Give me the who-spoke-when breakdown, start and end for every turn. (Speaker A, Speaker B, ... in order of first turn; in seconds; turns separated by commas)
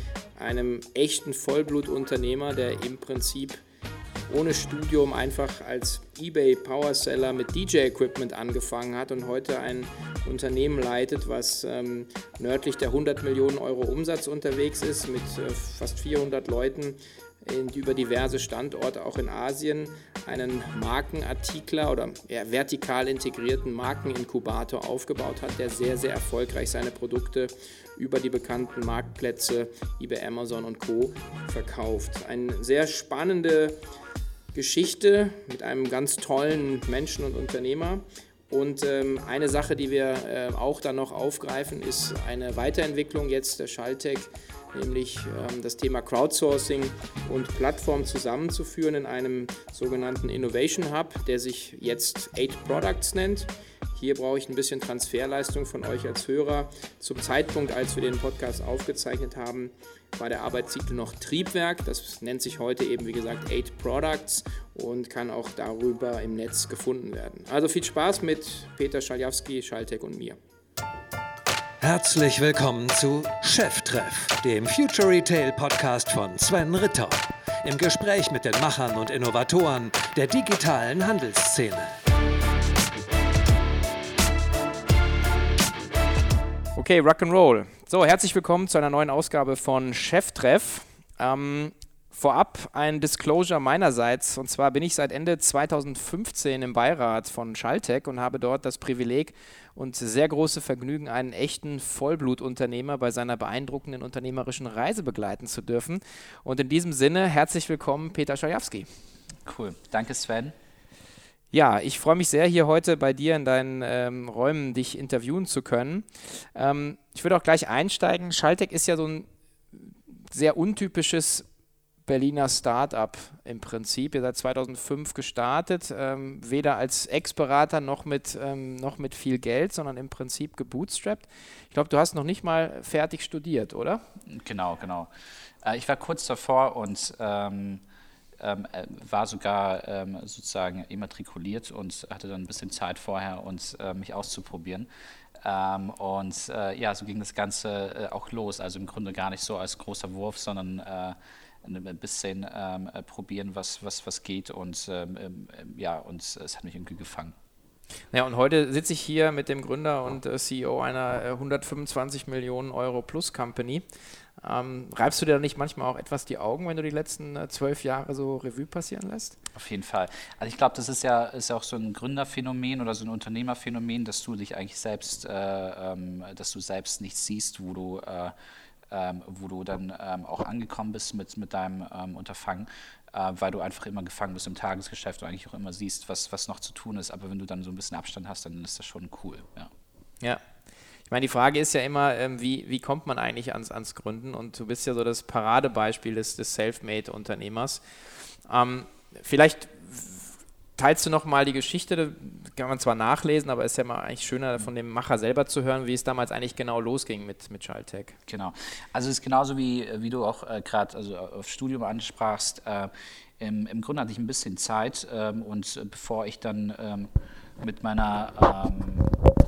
Speaker A: 0.4-3.6, Speaker A: 4.3-33.8, Speaker A: 34.5-70.4, Speaker B: 71.8-81.9, Speaker A: 86.8-108.9, Speaker C: 109.5-110.5, Speaker A: 111.5-121.5, Speaker A: 122.1-134.0, Speaker C: 134.3-135.1, Speaker C: 135.6-137.8, Speaker C: 138.4-144.9, Speaker C: 145.4-157.4, Speaker A: 158.1-169.4, Speaker C: 169.6-178.3, Speaker C: 178.9-189.7, Speaker A: 191.1-208.2, Speaker C: 208.3-219.2